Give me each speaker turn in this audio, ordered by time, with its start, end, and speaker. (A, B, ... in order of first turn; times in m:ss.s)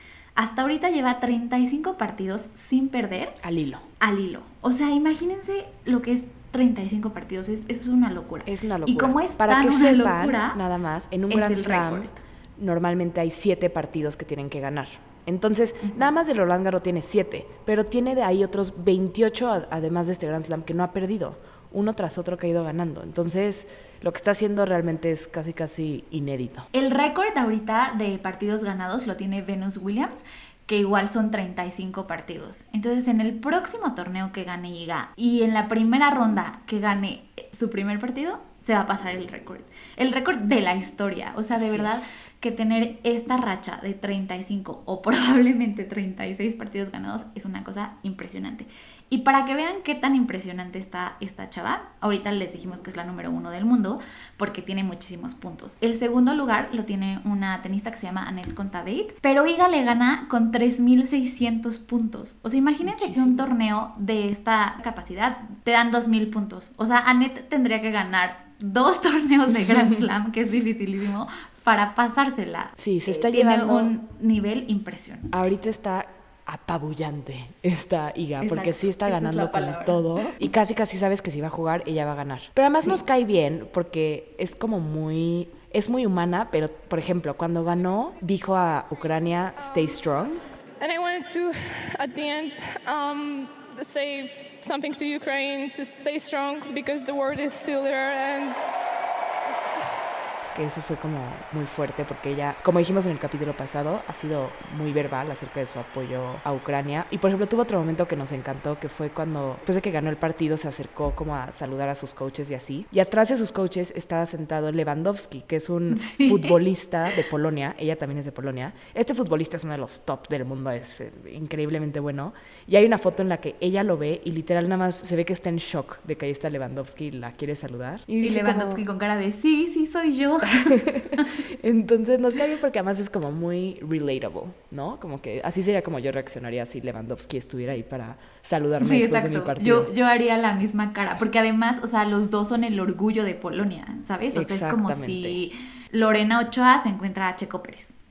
0:00.4-0:03.4 A
0:03.4-0:03.8 B
0:04.0-0:10.6 A
0:08.4-0:26.7 B
0:11.3-0:12.2 A
0:26.7-1:15.3 A
0:41.5-0:42.3 B
1:02.8-1:03.5 B
1:09.5-1:10.0 B
1:12.8-1:13.9 B
1:15.3-1:30.4 B
1:18.4-1:20.3 A
1:30.8-1:38.6 C
1:40.5-2:08.8 B
1:55.9-1:56.6 A
2:08.2-2:11.4 A
2:10.6-2:19.9 B
2:18.8-2:28.0 A
2:24.3-2:25.4 B